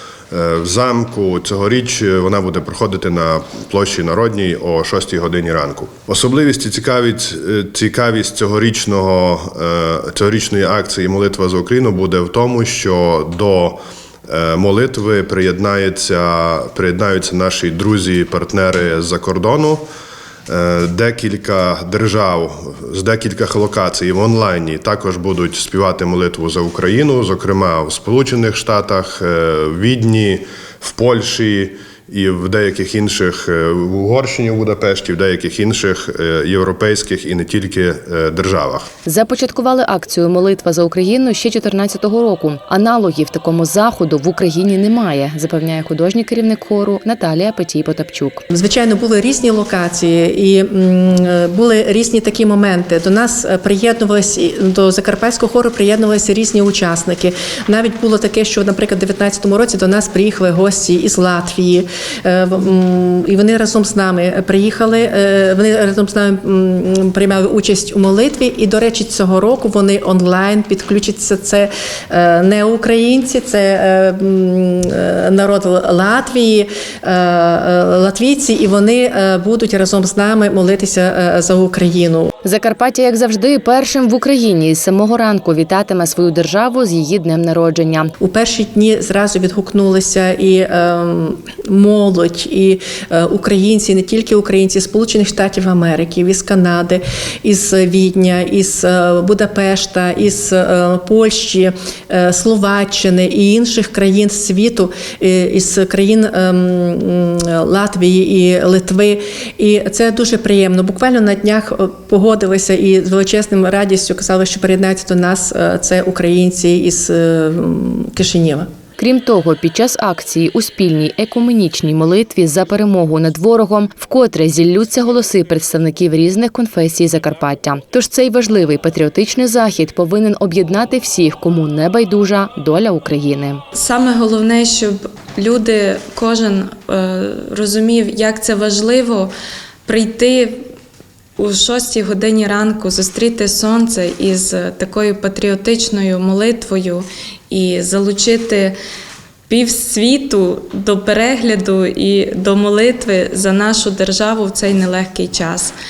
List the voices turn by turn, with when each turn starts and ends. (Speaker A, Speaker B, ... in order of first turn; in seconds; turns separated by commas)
Speaker A: 0.3-19.9, Speaker A: 20.5-38.9, Speaker B: 39.1-48.4, Speaker C: 48.5-82.3, Speaker B: 82.4-88.1, Speaker C: 88.2-118.7, Speaker B: 119.0-133.6, Speaker D: 133.7-139.3, Speaker D: 139.9-140.6, Speaker D: 141.4-148.8, Speaker D: 149.5-155.7